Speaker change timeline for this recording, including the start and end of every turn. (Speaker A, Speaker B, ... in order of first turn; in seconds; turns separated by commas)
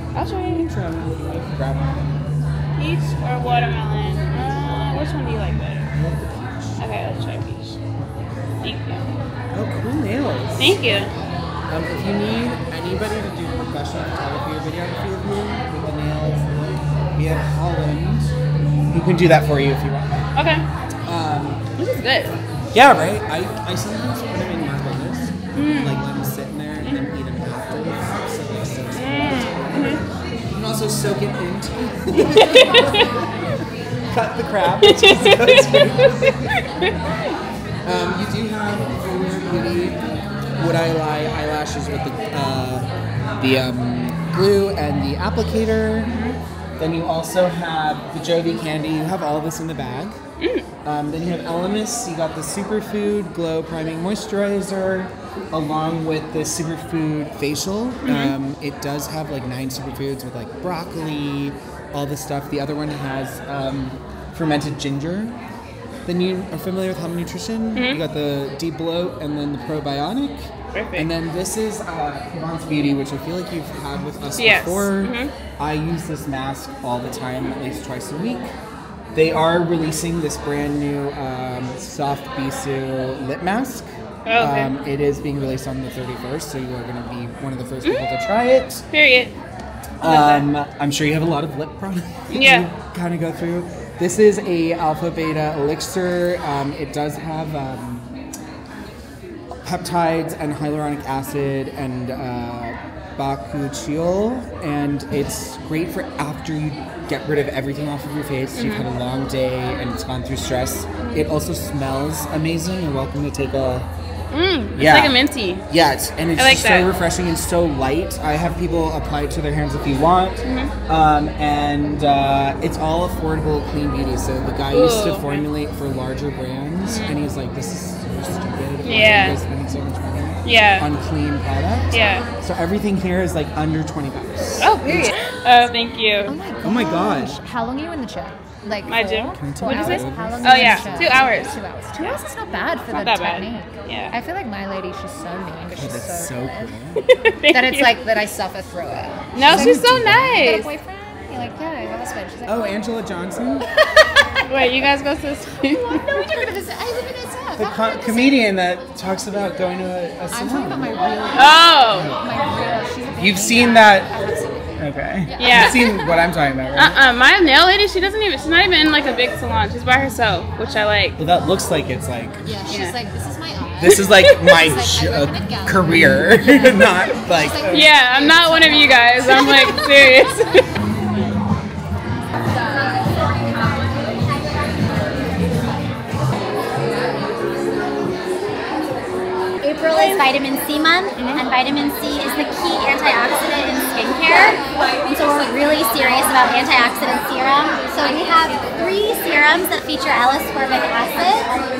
Speaker A: 0.1-0.7, Speaker B: 0.4-2.2, Speaker A: 2.8-5.9, Speaker B: 5.9-6.8, Speaker A: 6.8-7.8, Speaker A: 8.6-9.1, Speaker B: 9.5-10.8, Speaker A: 10.6-11.1, Speaker B: 11.7-16.4, Speaker B: 17.1-18.3, Speaker B: 18.9-20.2, Speaker A: 20.3-20.6, Speaker B: 21.1-21.6, Speaker A: 21.8-22.4, Speaker B: 22.7-30.0, Speaker A: 25.5-26.0, Speaker A: 28.9-30.0, Speaker B: 30.5-33.2, Speaker A: 32.1-33.1, Speaker B: 34.1-36.9, Speaker A: 34.8-36.9, Speaker B: 37.8-40.0, Speaker B: 40.5-46.1, Speaker A: 46.1-46.4, Speaker B: 46.8-50.2, Speaker A: 50.4-50.6, Speaker B: 50.8-65.4, Speaker A: 58.0-58.3, Speaker B: 66.0-78.5, Speaker A: 67.7-68.0, Speaker A: 70.7-71.1, Speaker A: 74.4-75.3, Speaker B: 79.1-88.8, Speaker A: 84.2-84.7, Speaker A: 88.9-89.3, Speaker B: 90.0-98.1, Speaker A: 90.0-90.5, Speaker A: 92.3-92.7, Speaker B: 99.6-113.9, Speaker A: 108.5-108.8, Speaker A: 111.0-111.3, Speaker A: 114.3-115.6, Speaker B: 114.7-115.2, Speaker B: 115.7-135.1, Speaker A: 116.4-116.9, Speaker A: 120.4-120.7, Speaker A: 124.7-125.5, Speaker A: 126.8-127.2, Speaker A: 128.8-129.4, Speaker A: 130.4-130.9, Speaker A: 131.9-132.2, Speaker A: 134.6-136.3, Speaker C: 136.3-146.8, Speaker B: 136.6-137.4, Speaker A: 138.8-142.2, Speaker B: 139.3-141.3, Speaker A: 142.9-144.1, Speaker B: 145.7-147.0, Speaker A: 147.2-148.0, Speaker C: 147.5-152.9, Speaker A: 149.3-150.7, Speaker B: 149.4-150.4, Speaker B: 152.4-153.6, Speaker A: 154.4-156.4, Speaker C: 155.7-158.4, Speaker B: 157.6-160.9, Speaker C: 160.3-165.9, Speaker A: 161.3-162.1, Speaker B: 163.2-164.1, Speaker B: 164.8-167.0, Speaker A: 165.4-165.9, Speaker A: 166.7-171.2, Speaker B: 171.2-172.4, Speaker C: 172.4-180.3, Speaker A: 172.7-173.0, Speaker B: 173.8-177.9, Speaker A: 177.7-180.6, Speaker D: 189.6-201.5, Speaker A: 189.9-190.2